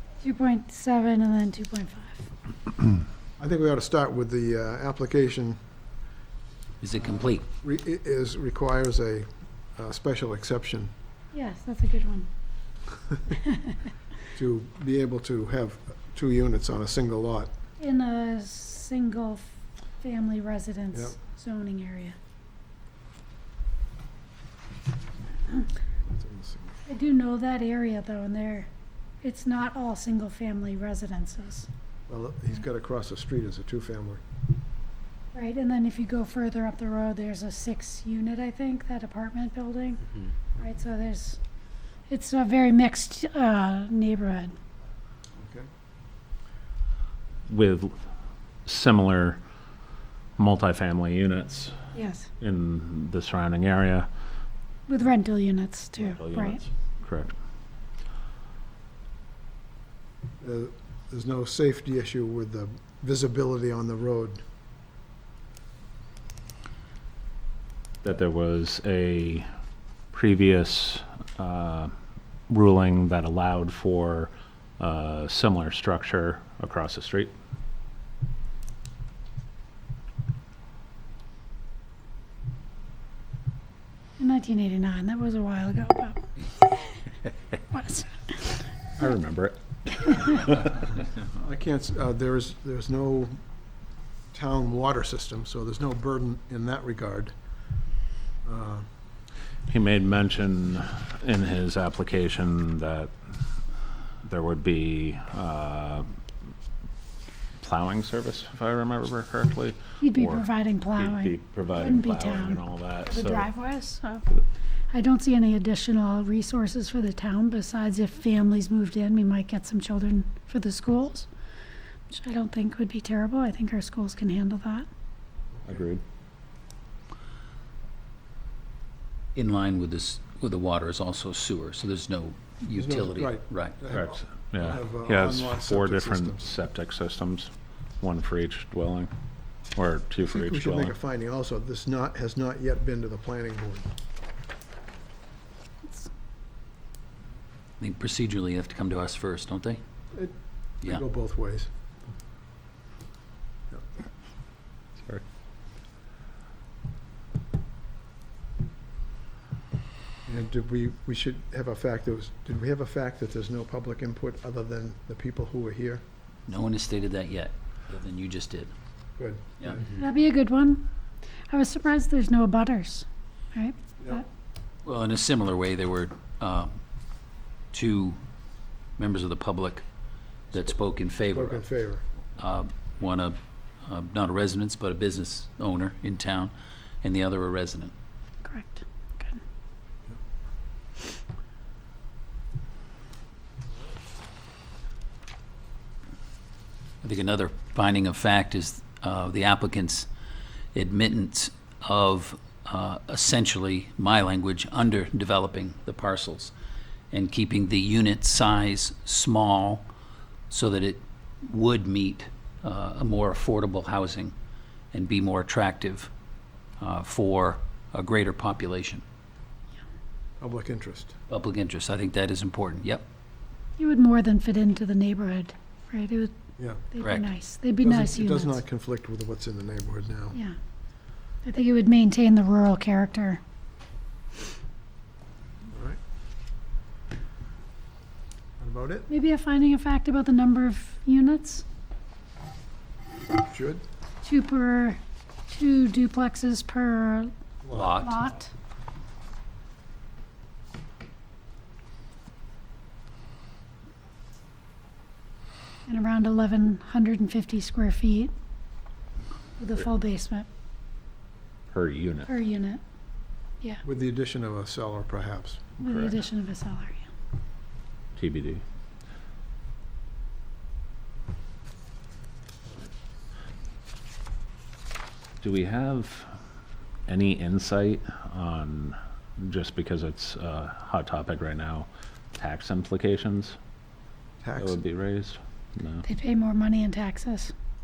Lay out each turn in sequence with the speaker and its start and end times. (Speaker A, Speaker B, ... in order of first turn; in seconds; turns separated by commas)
Speaker A: 0.2-2.3, Speaker B: 3.4-5.6, Speaker C: 6.8-7.4, Speaker B: 7.2-10.9, Speaker A: 11.3-12.3, Speaker B: 14.3-17.5, Speaker A: 17.8-22.1, Speaker B: 26.0-26.8, Speaker A: 26.9-28.7, Speaker A: 29.2-31.7, Speaker B: 32.1-34.2, Speaker A: 35.3-41.4, Speaker A: 42.1-44.5, Speaker B: 45.4-45.7, Speaker D: 47.5-48.0, Speaker D: 48.6-49.4, Speaker D: 50.4-51.7, Speaker A: 51.9-52.3, Speaker D: 52.4-54.1, Speaker A: 54.9-56.6, Speaker D: 56.0-57.3, Speaker B: 60.4-64.4, Speaker D: 68.0-69.5, Speaker D: 70.1-71.9, Speaker D: 72.5-77.3, Speaker A: 84.2-88.6, Speaker D: 89.0-90.8, Speaker B: 91.2-93.4, Speaker B: 94.3-97.3, Speaker B: 98.4-98.9, Speaker D: 99.7-103.1, Speaker D: 104.2-106.0, Speaker D: 107.6-113.5, Speaker A: 110.0-114.2, Speaker A: 114.9-121.3, Speaker A: 122.1-124.8, Speaker B: 125.6-125.8, Speaker D: 125.7-126.0, Speaker C: 129.3-133.8, Speaker B: 132.7-136.5, Speaker D: 133.9-139.1, Speaker D: 139.7-140.9, Speaker B: 140.2-143.9, Speaker C: 147.8-149.8, Speaker B: 150.1-151.7, Speaker B: 160.3-166.0, Speaker C: 166.5-168.7, Speaker B: 169.2-170.0, Speaker A: 169.9-170.8, Speaker A: 171.5-174.2, Speaker C: 174.8-176.8, Speaker C: 177.7-178.2, Speaker C: 179.0-179.8, Speaker C: 180.5-181.6, Speaker B: 181.3-182.0, Speaker C: 182.4-187.9, Speaker A: 188.4-189.4, Speaker C: 197.0-200.1, Speaker C: 200.7-206.5, Speaker C: 207.1-209.8, Speaker C: 210.5-214.3, Speaker C: 214.9-216.1, Speaker C: 216.8-219.0, Speaker B: 220.4-221.1, Speaker C: 221.3-223.0, Speaker A: 223.8-226.3, Speaker B: 226.6-226.8, Speaker A: 226.9-228.6, Speaker C: 227.0-227.3, Speaker B: 227.8-230.4, Speaker A: 231.4-233.4, Speaker B: 235.7-236.0, Speaker B: 238.6-239.1, Speaker A: 239.1-241.6, Speaker B: 243.4-243.8, Speaker A: 244.2-247.3, Speaker B: 247.6-248.0, Speaker C: 247.7-248.2, Speaker A: 248.0-248.5, Speaker A: 255.9-258.3, Speaker A: 259.6-260.5, Speaker D: 261.7-262.3, Speaker A: 262.3-262.8, Speaker B: 263.8-265.7, Speaker A: 265.8-267.0, Speaker D: 265.9-266.2, Speaker D: 268.1-268.6, Speaker D: 275.4-276.3, Speaker D: 277.1-283.6, Speaker B: 284.4-284.8, Speaker D: 284.6-286.0, Speaker A: 286.0-287.5